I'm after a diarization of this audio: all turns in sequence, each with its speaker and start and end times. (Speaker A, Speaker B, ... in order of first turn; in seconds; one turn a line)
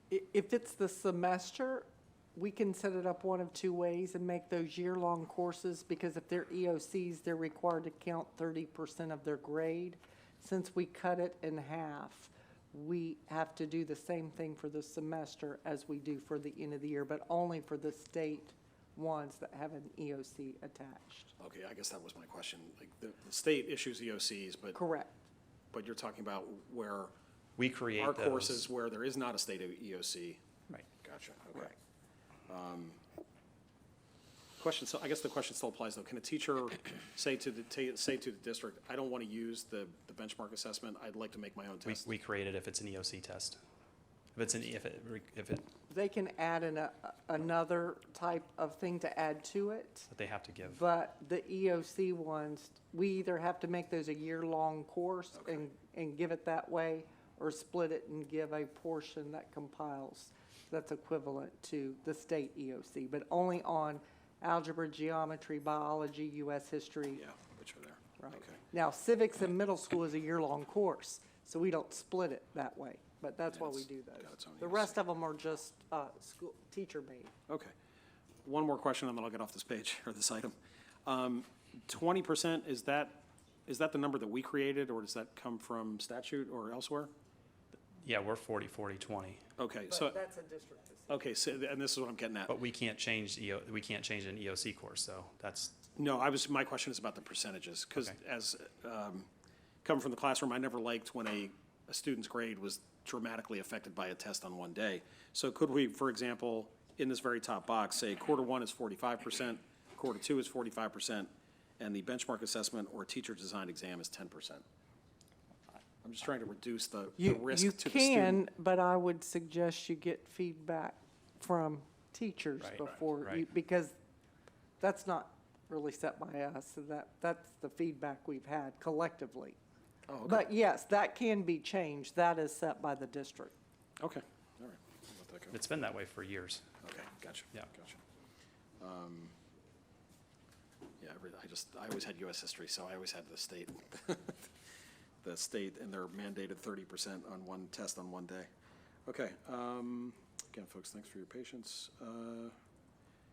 Speaker A: 0.1-21.3
Speaker B: 21.4-24.8
Speaker A: 24.7-25.1
Speaker B: 25.7-27.1
Speaker C: 27.6-28.7
Speaker B: 27.9-30.4
Speaker B: 31.0-31.7
Speaker B: 32.5-33.0
Speaker B: 34.6-42.1
Speaker C: 41.8-43.6
Speaker C: 44.3-45.7
Speaker A: 45.9-50.1
Speaker C: 50.1-50.8
Speaker A: 50.6-67.3
Speaker B: 67.2-68.6
Speaker A: 68.2-77.3
Speaker B: 73.5-75.0
Speaker B: 77.5-77.7
Speaker B: 78.4-87.1
Speaker C: 88.0-89.4
Speaker B: 89.6-90.2
Speaker A: 89.9-91.2
Speaker B: 91.1-92.5
Speaker C: 92.5-95.8
Speaker B: 96.0-99.3
Speaker B: 99.8-114.6
Speaker B: 116.0-118.4
Speaker A: 117.2-123.9
Speaker C: 122.6-123.5
Speaker A: 124.8-129.6
Speaker B: 130.1-130.4
Speaker A: 130.2-133.5
Speaker B: 134.0-135.6
Speaker C: 135.5-136.7
Speaker B: 136.8-138.0
Speaker B: 138.8-139.3
Speaker B: 141.0-144.5
Speaker B: 145.2-148.5
Speaker B: 149.1-152.5